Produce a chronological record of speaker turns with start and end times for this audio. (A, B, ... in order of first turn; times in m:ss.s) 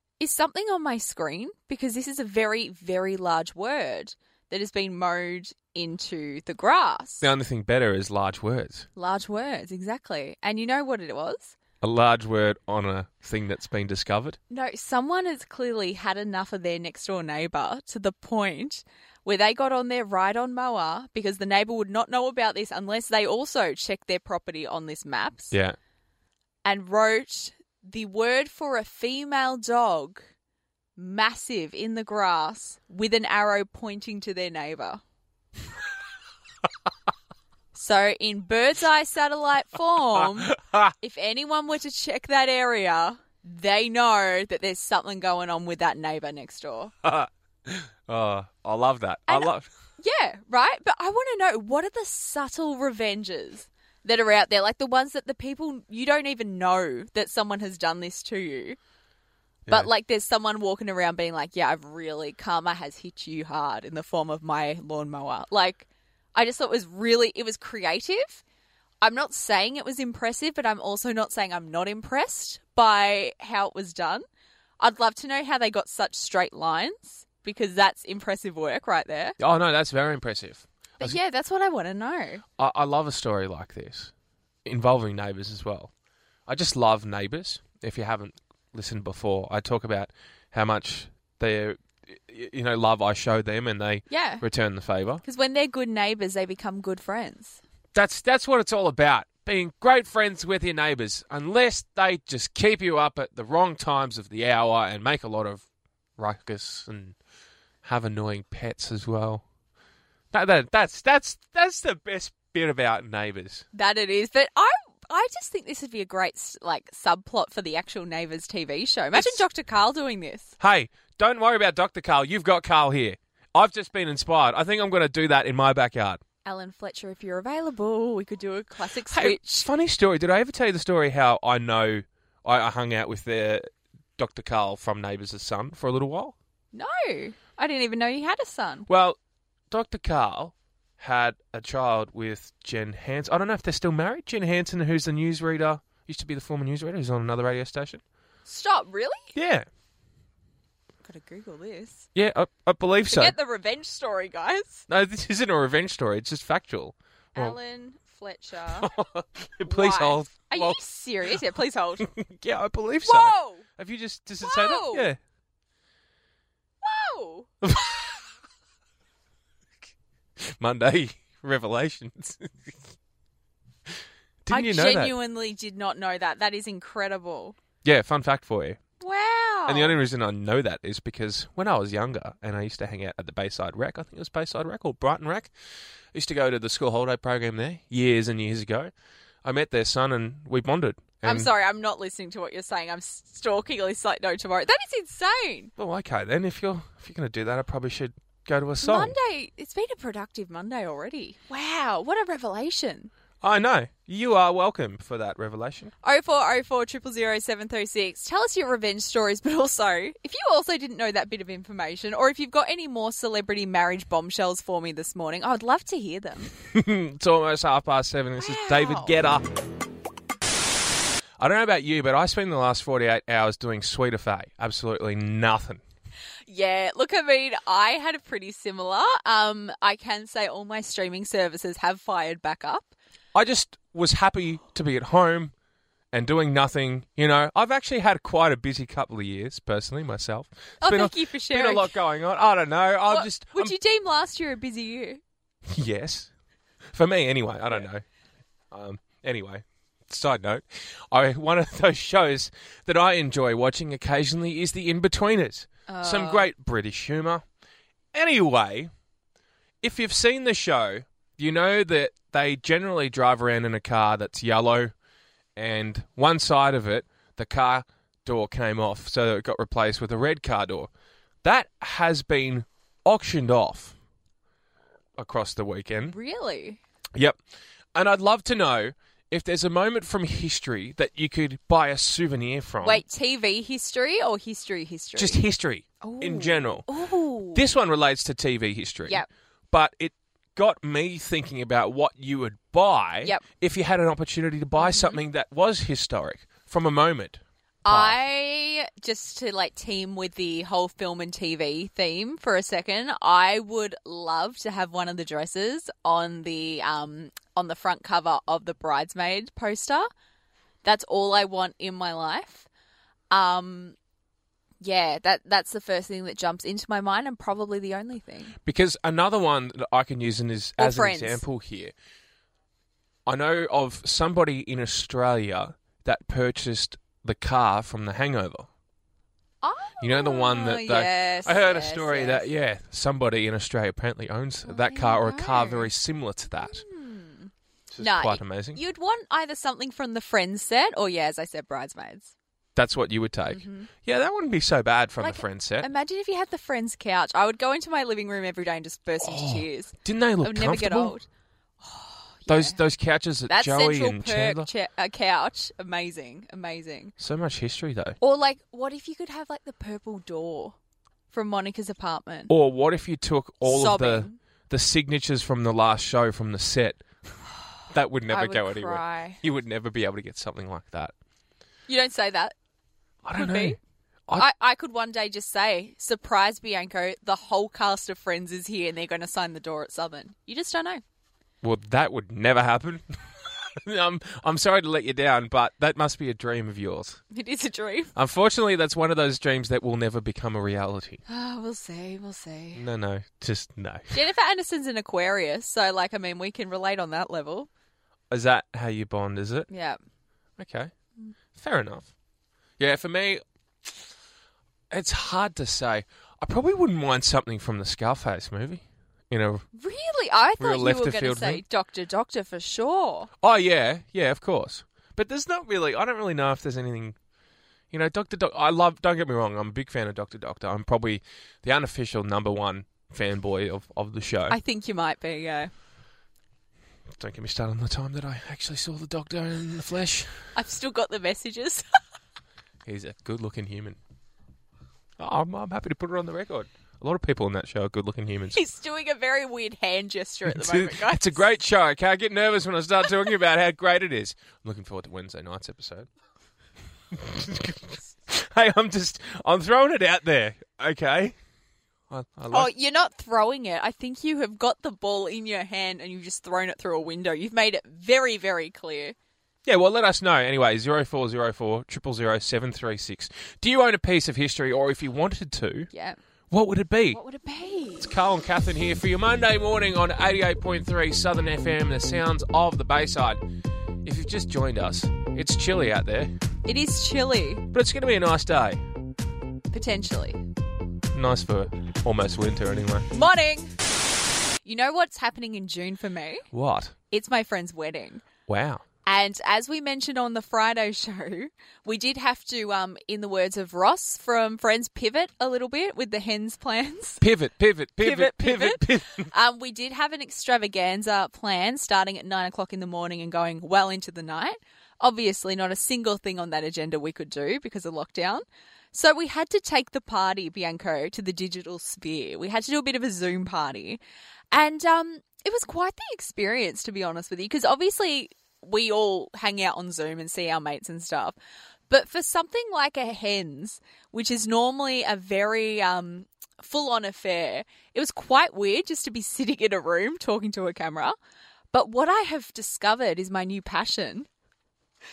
0:00.2-0:07.3 A
0:07.2-0:08.9 B
0:09.0-0:11.6 A
0:11.8-0:14.4 B
0:14.5-0:25.5 A
0:26.6-0:30.3 A
0:31.0-0:35.0 A
0:37.7-0:46.9 A
0:40.5-0:40.9 B
0:47.0-0:49.7 B
0:49.3-0:58.8 A
0:59.7-1:08.4 A
1:09.0-1:14.3 A
1:14.8-1:19.4 A
1:19.4-1:21.2 B
1:21.0-1:22.4 A
1:22.6-1:24.1 B
1:24.6-1:25.9 B
1:26.5-1:35.2 B
1:34.1-1:34.4 A
1:35.2-1:37.6 A
1:37.9-1:45.6 B
1:46.2-1:47.2 B
1:47.8-1:49.4 B
1:50.3-1:53.6 B
1:53.7-2:00.6 A
1:59.1-1:59.4 B
2:00.6-2:06.2 B
2:06.4-2:09.7 A
2:09.1-2:16.4 B
2:16.7-2:18.9 A
2:18.9-2:19.2 B
2:19.7-2:28.0 B
2:28.5-2:29.3 A
2:29.4-2:29.7 B
2:31.0-2:32.1 A
2:32.2-2:33.4 B
2:33.1-2:34.9 A
2:34.9-2:37.6 B
2:37.3-2:38.9 A
2:38.8-2:40.8 B
2:39.6-2:42.1 A
2:42.0-2:45.2 B
2:43.0-2:43.7 A
2:44.4-2:45.1 A
2:46.8-2:47.5 A
2:47.6-2:48.2 B
2:50.4-2:52.8 B
2:54.4-2:55.1 B
2:54.5-2:57.6 A
2:57.8-2:58.8 B
2:59.0-3:00.0 A
2:59.7-3:05.5 B
3:06.1-3:08.9 B
3:09.4-3:11.5 B
3:11.2-3:15.7 A
3:15.8-3:19.2 B
3:18.8-3:23.1 A
3:23.4-3:25.9 B
3:26.0-3:36.5 A
3:36.7-3:39.5 B
3:38.4-3:39.1 A
3:41.4-3:45.8 B
3:46.5-3:52.9 A
3:53.3-3:55.5 B
3:56.1-4:03.7 B
4:00.8-4:02.0 A
4:03.1-4:05.2 A
4:05.7-4:06.3 B
4:06.9-4:08.0 B
4:08.7-4:17.4 B
4:15.9-4:16.5 A
4:18.1-4:18.9 B
4:19.8-4:24.9 B
4:25.6-4:30.9 B
4:31.4-4:34.0 B
4:35.2-4:36.2 B
4:36.1-4:36.8 A
4:38.0-4:43.0 B
4:42.8-4:45.4 A
4:45.2-4:46.9 B
4:46.0-4:47.6 A
4:47.5-4:58.2 B
4:54.8-4:55.2 A
4:57.8-5:10.1 A
5:10.8-5:12.7 A
5:13.3-5:14.0 A
5:14.8-5:18.6 A
5:18.6-5:21.9 B
5:20.8-5:21.4 A
5:23.3-5:28.7 B
5:29.6-5:32.5 A
5:30.0-5:36.8 B
5:34.7-5:35.9 A
5:36.6-5:42.3 A
5:37.9-5:38.8 B
5:42.8-5:45.9 B
5:43.5-5:43.9 A
5:45.2-5:51.3 A
5:49.2-5:51.2 B
5:51.8-5:52.8 A
5:52.5-5:54.7 B
5:53.5-5:57.1 A
5:57.2-5:58.2 B
5:58.2-6:00.8 A
6:01.3-6:02.5 A
6:02.5-6:07.0 B
6:03.6-6:04.4 A
6:07.9-6:11.1 B
6:08.3-6:09.4 A
6:11.9-6:12.5 A
6:13.2-6:14.5 B
6:13.4-6:13.8 A
6:14.4-6:21.0 A
6:21.6-6:27.2 B
6:27.3-6:28.1 A
6:28.2-6:31.2 B
6:31.3-6:32.8 A
6:32.8-6:34.2 B
6:34.1-6:37.7 A
6:38.3-6:39.7 B
6:39.7-6:40.0 A
6:40.6-6:40.9 B
6:41.5-6:42.1 B
6:42.8-6:44.0 B
6:44.9-6:49.6 B
6:49.7-6:53.3 A
6:50.6-6:51.6 B
6:53.4-6:57.2 B
6:57.9-7:04.6 B
7:04.5-7:05.7 A
7:07.2-7:10.4 B
7:10.6-7:11.8 A
7:12.8-7:14.0 B
7:15.2-7:18.6 B
7:18.5-7:21.4 A
7:20.5-7:26.1 B
7:27.1-7:31.4 B
7:32.1-7:32.7 B
7:32.5-7:39.2 A
7:39.6-7:45.9 B
7:45.9-7:46.2 A
7:46.5-7:47.2 B
7:47.1-7:48.1 A
7:48.0-7:53.4 B
7:54.0-7:56.4 B
7:56.6-7:57.6 A
7:57.7-7:58.8 B
7:59.7-8:00.4 A
8:01.1-8:03.1 B
8:03.1-8:03.7 A
8:04.6-8:06.5 A
8:06.5-8:06.9 B
8:07.1-8:08.2 A
8:08.5-8:08.8 B
8:09.0-8:17.2 A
8:17.2-8:19.3 B
8:18.0-8:34.0 A
8:34.5-8:41.4 A
8:41.9-8:51.2 A
8:51.7-8:54.3 A